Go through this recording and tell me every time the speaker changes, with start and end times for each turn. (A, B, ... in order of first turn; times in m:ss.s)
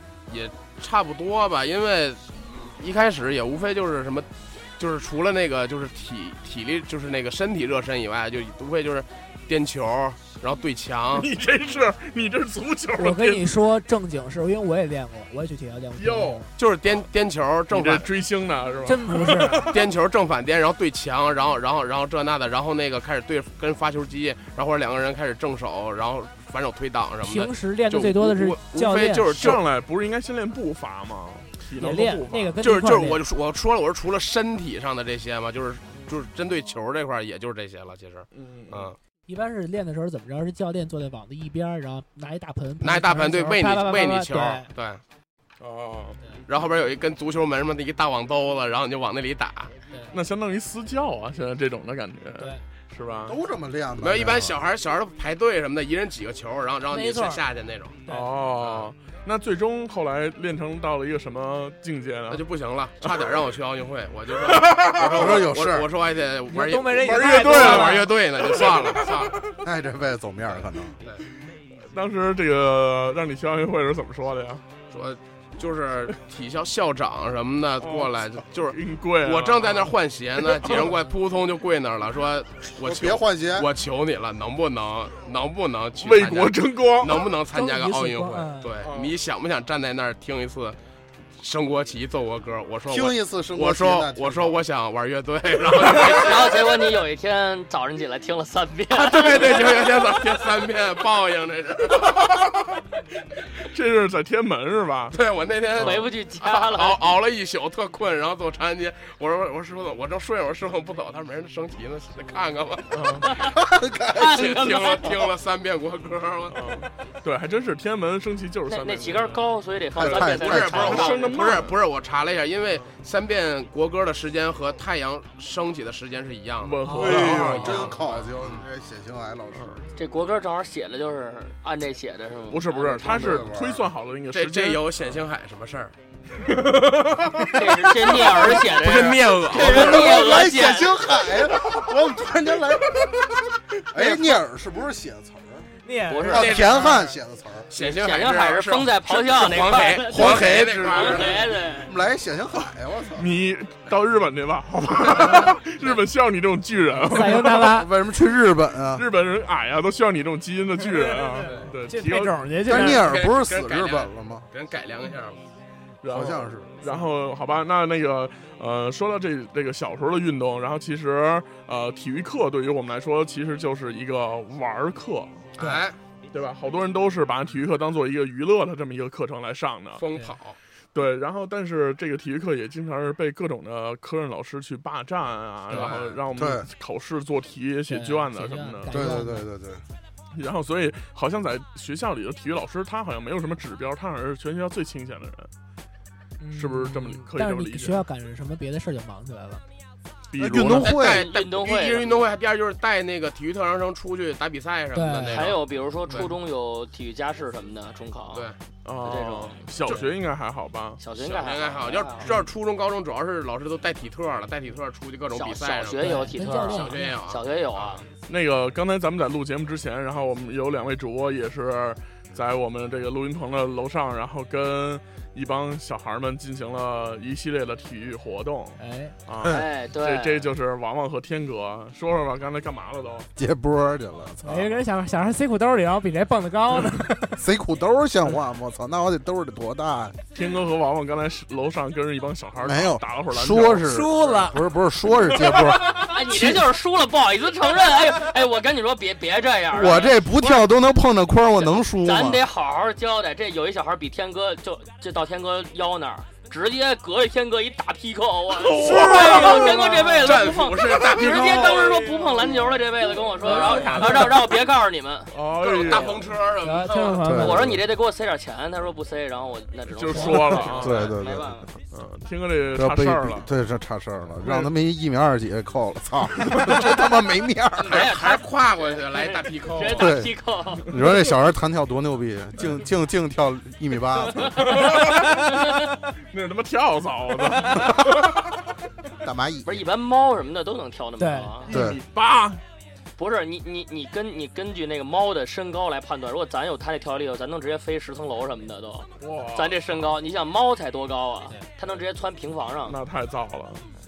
0:00.3-0:11.3 A
0:11.1-0:13.6 B
0:13.0-0:16.5 C
0:16.0-0:16.5 B
0:16.6-0:18.1 A
0:17.7-0:19.8 B
0:18.8-0:19.7 C
0:19.7-0:29.6 A
0:27.2-0:29.5 C
0:29.3-0:32.6 B
0:31.8-0:33.2 C
0:32.6-0:39.0 A
0:38.3-0:38.9 B
0:39.3-0:44.7 C
0:42.8-0:45.0 A
0:45.6-0:46.2 B
0:46.5-0:49.7 A
0:50.1-0:53.4 B
0:53.3-0:54.6 D
0:54.0-0:58.0 A
0:56.9-0:57.4 C
0:58.1-1:02.4 B
0:58.6-0:58.9 A
1:02.3-1:09.4 A
1:03.0-1:03.4 B
1:04.4-1:05.4 B
1:05.1-1:05.9 D
1:06.5-1:08.1 C
1:07.0-1:09.5 B
1:09.5-1:11.0 D
1:10.5-1:11.2 A
1:11.8-1:14.6 B
1:14.9-1:30.8 A
1:17.8-1:21.0 B
1:22.8-1:23.7 D
1:26.0-1:27.3 B
1:27.5-1:28.8 C
1:28.8-1:29.1 B
1:31.4-1:36.8 A
1:32.9-1:34.6 D
1:35.6-1:36.3 B
1:36.0-1:39.8 E
1:38.9-1:42.3 A
1:42.0-1:42.8 B
1:43.6-1:45.2 B
1:45.1-1:53.2 A
1:45.8-1:47.0 E
1:45.8-1:46.0 B
1:52.9-1:53.3 B
1:53.2-1:53.6 E
1:53.4-1:54.8 D
1:54.1-1:55.3 E
1:54.1-1:56.7 A
1:56.5-1:59.5 B
1:58.7-2:01.5 E
1:59.9-2:01.0 D
2:00.0-2:08.6 A
2:00.5-2:01.8 B
2:06.6-2:08.0 B
2:06.8-2:07.2 C
2:06.9-2:09.8 D
2:09.5-2:09.8 B
2:10.0-2:13.5 E
2:12.5-2:15.2 B
2:13.0-2:13.8 D
2:14.3-2:15.9 A
2:16.4-2:17.6 B
2:17.5-2:21.0 E
2:18.0-2:20.1 A
2:19.5-2:23.3 D
2:23.9-2:25.7 D
2:25.8-2:27.0 C
2:26.1-2:26.8 E
2:26.2-2:27.7 D
2:26.2-2:27.1 A
2:27.7-2:31.5 A
2:27.8-2:31.9 E
2:30.0-2:33.3 D
2:33.1-2:37.7 B
2:35.2-2:36.0 A
2:37.1-2:37.9 C
2:37.5-2:39.1 D
2:38.9-2:42.3 B
2:40.8-2:43.1 C
2:41.4-2:41.7 A
2:42.6-2:44.4 D
2:42.7-2:45.4 A
2:46.0-2:55.4 B
2:46.1-2:46.8 D
2:55.6-2:56.0 A
2:56.3-3:00.0 B
3:00.0-3:00.6 A
3:00.9-3:09.1 B
3:05.7-3:06.2 A
3:06.3-3:06.7 D
3:07.9-3:09.5 C
3:08.9-3:09.8 D
3:10.3-3:15.5 B
3:16.4-3:19.6 C
3:16.5-3:18.0 B
3:20.3-3:20.9 B
3:20.4-3:21.2 D
3:20.7-3:26.3 A
3:20.9-3:22.3 E
3:24.9-3:25.5 C
3:25.3-3:30.0 E
3:28.8-3:31.0 B
3:31.0-3:32.4 E
3:31.1-3:38.0 A
3:35.3-3:38.0 E
3:36.0-3:37.1 C
3:38.2-3:53.3 B
3:48.8-3:49.1 C
3:49.5-3:50.5 E
3:53.4-3:54.7 D
3:54.4-3:57.4 C
3:57.4-4:00.2 D
4:00.3-4:04.4 B
4:02.6-4:06.7 D
4:03.8-4:04.6 C
4:05.2-4:05.5 B
4:06.0-4:10.6 E
4:09.7-4:12.4 D
4:11.5-4:26.2 E
4:18.5-4:20.4 B
4:20.2-4:22.0 A
4:20.9-4:21.9 B
4:23.4-4:24.2 A
4:23.4-4:24.3 C
4:23.6-4:24.0 B
4:25.3-4:26.3 B
4:25.6-4:27.3 A
4:26.6-4:27.8 C
4:27.2-4:27.8 D
4:27.2-4:31.7 E
4:29.9-4:31.2 B
4:30.1-4:30.6 C
4:30.7-4:31.7 D
4:31.9-4:33.5 B
4:32.7-4:38.1 D
4:34.4-4:34.7 B
4:36.4-4:36.9 B
4:37.8-4:40.2 A
4:37.8-4:40.9 E
4:40.0-4:40.3 D
4:40.9-4:44.5 D
4:44.4-4:48.5 B
4:44.4-4:45.9 E
4:49.2-4:49.8 D
4:49.6-4:51.7 E
4:51.2-4:51.6 C
4:51.7-4:52.6 B
4:51.7-4:52.0 D
4:53.2-5:03.0 E
4:59.2-5:00.0 B
5:02.8-5:03.8 B